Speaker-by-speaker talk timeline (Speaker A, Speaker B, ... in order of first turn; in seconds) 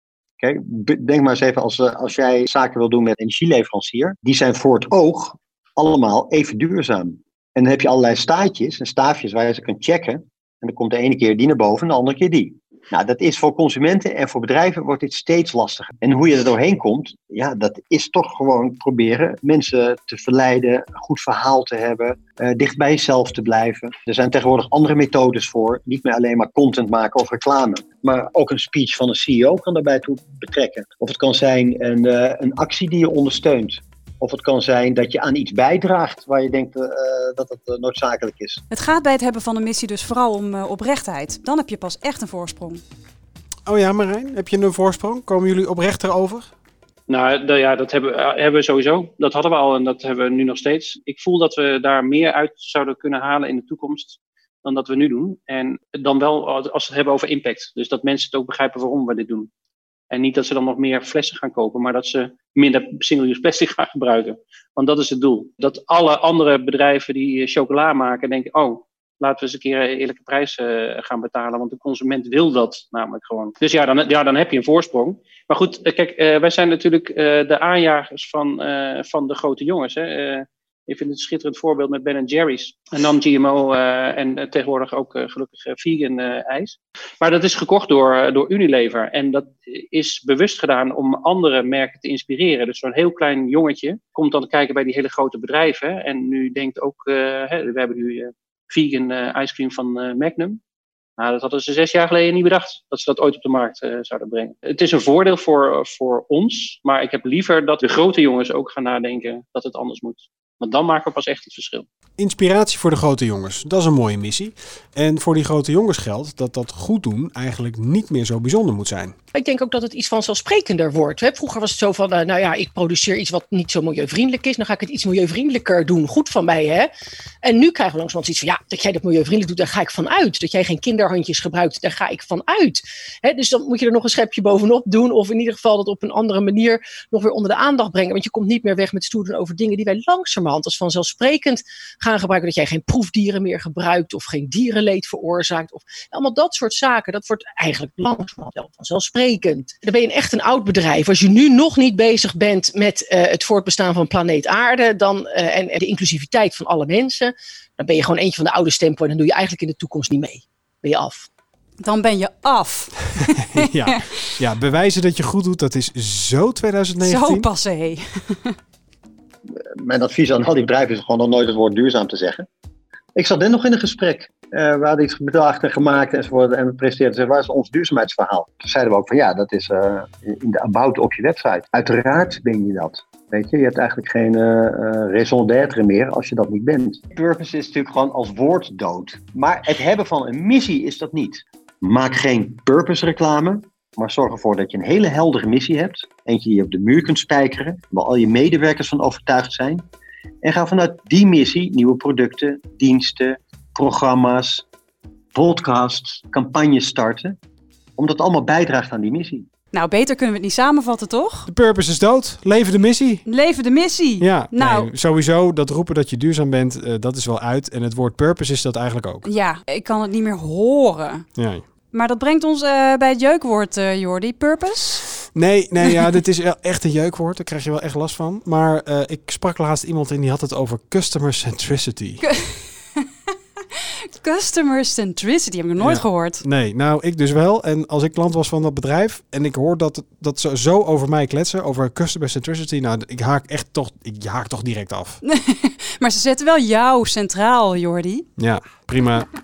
Speaker A: 0.4-38.6, 169.8-172.4, 173.2-199.8, 200.4-204.6, 205.3-207.3, 208.0-209.5
Speaker B: 38.7-42.8, 161.8-164.2, 167.0-168.5, 209.7-211.5, 213.2-214.9, 219.2-221.2, 221.9-225.1, 232.2-233.0, 234.1-236.4, 245.2-248.3
Speaker C: 43.6-46.5, 112.2-119.1, 163.5-167.5, 211.5-213.2, 214.2-219.3, 221.3-221.6, 225.3-232.2, 235.8-245.2, 248.4-249.3
Speaker D: 47.1-59.5, 60.1-100.6, 101.2-111.8
Speaker E: 119.3-126.9, 127.4-161.3